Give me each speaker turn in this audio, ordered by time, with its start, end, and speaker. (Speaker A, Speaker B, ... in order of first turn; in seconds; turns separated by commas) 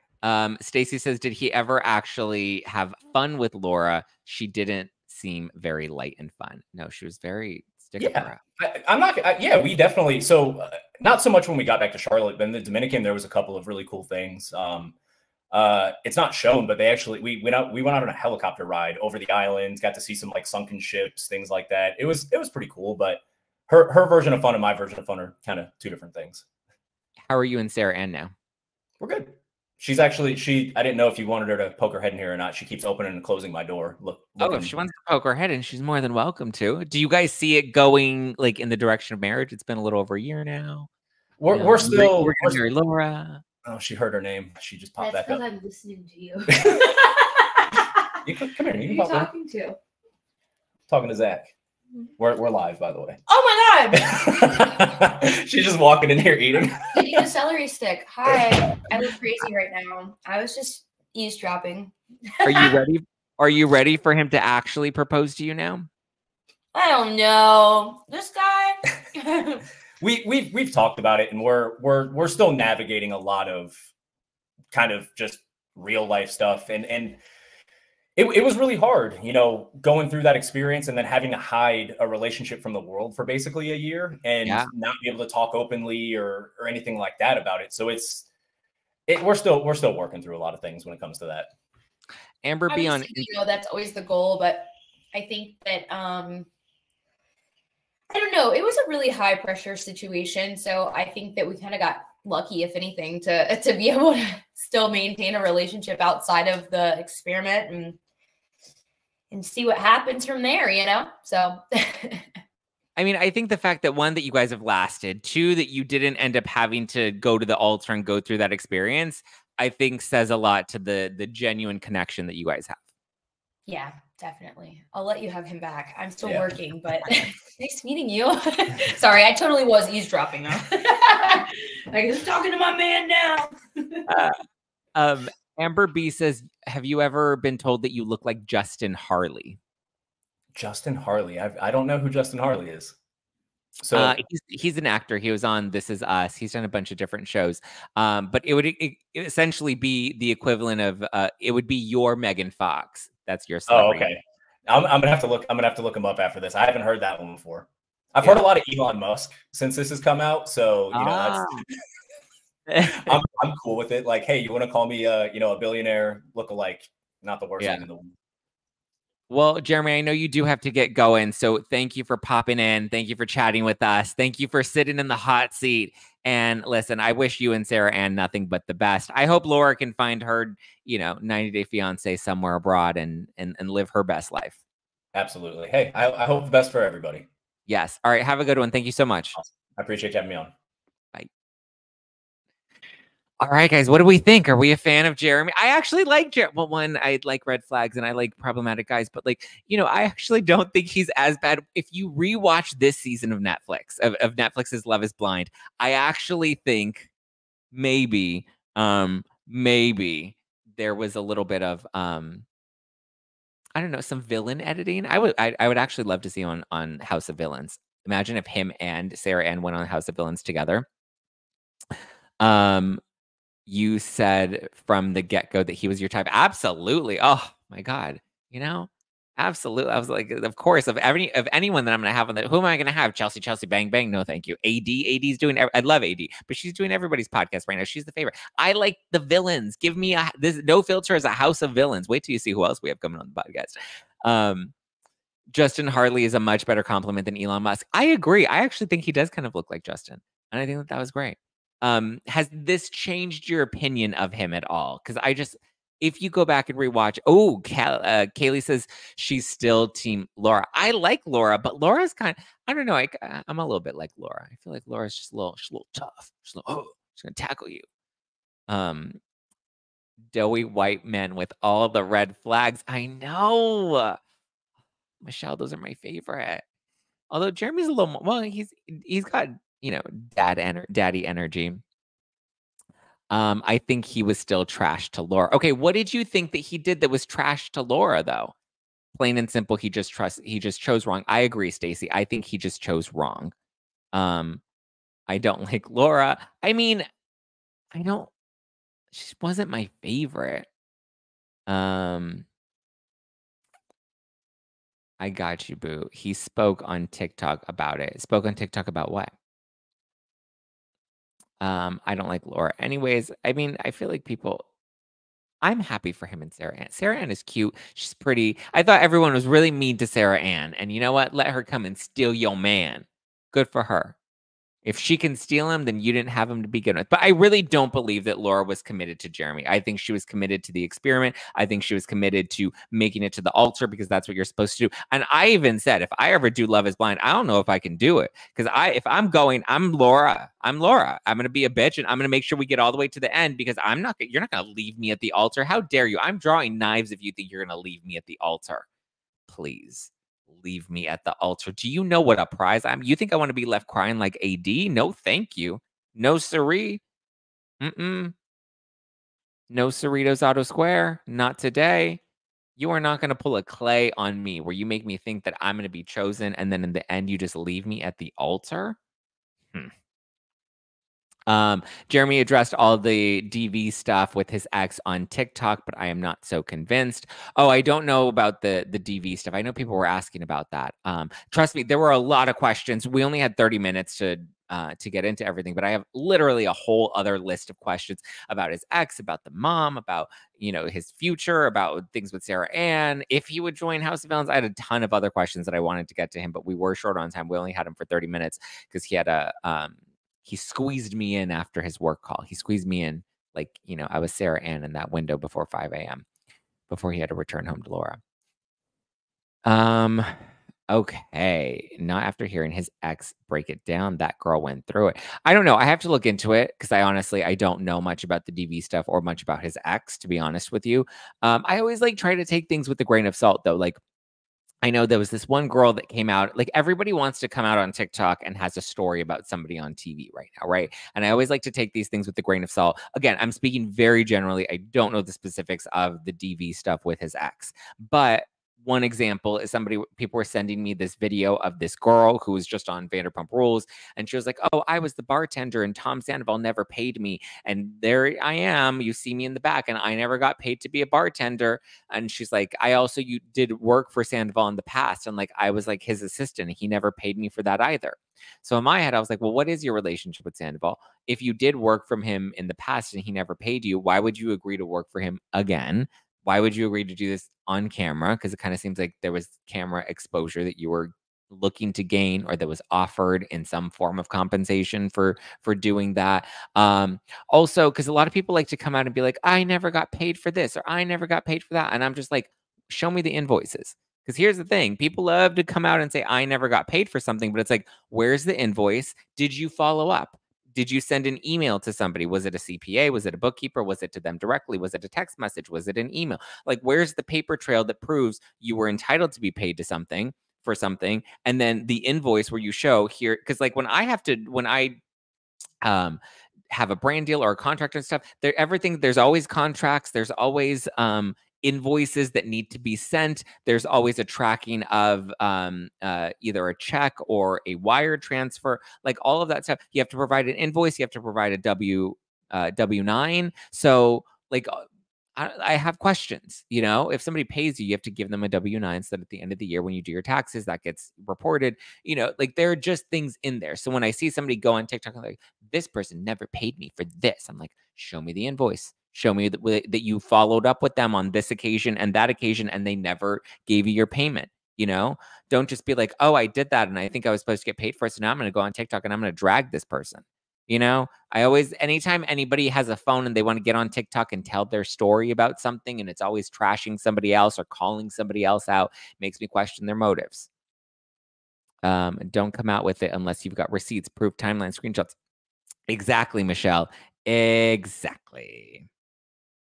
Speaker A: 0.2-8.4, Speaker B: 8.0-14.9, Speaker B: 15.5-26.4, Speaker A: 27.3-28.3, Speaker B: 29.0-34.7, Speaker A: 34.4-40.9, Speaker B: 41.4-42.6, Speaker A: 41.5-43.4, Speaker B: 43.6-45.4, Speaker C: 45.0-48.2, Speaker B: 46.6-46.9, Speaker B: 48.2-49.3, Speaker C: 48.7-49.8, Speaker B: 50.9-51.5, Speaker B: 52.2-53.2, Speaker C: 53.3-54.7, Speaker B: 53.9-57.3, Speaker C: 56.9-62.7, Speaker B: 58.2-58.6, Speaker A: 62.4-65.9, Speaker C: 66.7-69.6, Speaker B: 70.0-73.8, Speaker B: 74.7-77.2, Speaker B: 78.2-88.3, Speaker A: 84.4-84.7, Speaker B: 89.1-91.5, Speaker A: 92.4-93.3, Speaker C: 92.7-96.5, Speaker C: 98.1-108.0, Speaker C: 109.3-112.3, Speaker A: 113.0-122.8, Speaker C: 123.7-134.0, Speaker B: 126.2-126.5, Speaker A: 134.1-134.4, Speaker A: 134.9-139.6, Speaker B: 140.5-142.9, Speaker B: 143.8-144.2, Speaker A: 143.9-154.1, Speaker B: 153.7-161.7, Speaker A: 160.9-161.7, Speaker A: 162.7-163.2, Speaker B: 162.9-168.1, Speaker A: 167.6-167.8, Speaker A: 169.3-184.6, Speaker B: 185.1-187.3, Speaker A: 187.7-189.4, Speaker B: 189.3-190.5, Speaker A: 193.4-207.1, Speaker A: 207.7-212.4, Speaker A: 213.8-220.8, Speaker A: 222.4-223.0, Speaker A: 223.7-244.7, Speaker A: 245.5-267.8, Speaker A: 268.7-269.2, Speaker A: 270.3-274.2, Speaker A: 275.2-276.6, Speaker A: 277.3-281.8, Speaker A: 283.3-288.5, Speaker A: 289.1-293.5, Speaker A: 294.1-294.6, Speaker A: 295.3-297.1, Speaker A: 297.9-298.3, Speaker A: 299.1-300.7, Speaker A: 301.7-302.4, Speaker A: 305.2-309.3, Speaker A: 311.6-314.6, Speaker A: 315.6-324.1, Speaker A: 324.8-348.9, Speaker A: 349.5-357.0, Speaker A: 357.8-358.3, Speaker A: 359.7-362.2, Speaker A: 362.8-369.0, Speaker A: 371.5-406.2, Speaker A: 406.9-408.2, Speaker A: 409.6-410.3, Speaker A: 410.9-424.0, Speaker A: 424.8-505.0, Speaker A: 505.8-506.2, Speaker A: 506.7-524.8, Speaker A: 525.4-560.5, Speaker A: 561.8-565.1, Speaker A: 565.9-568.9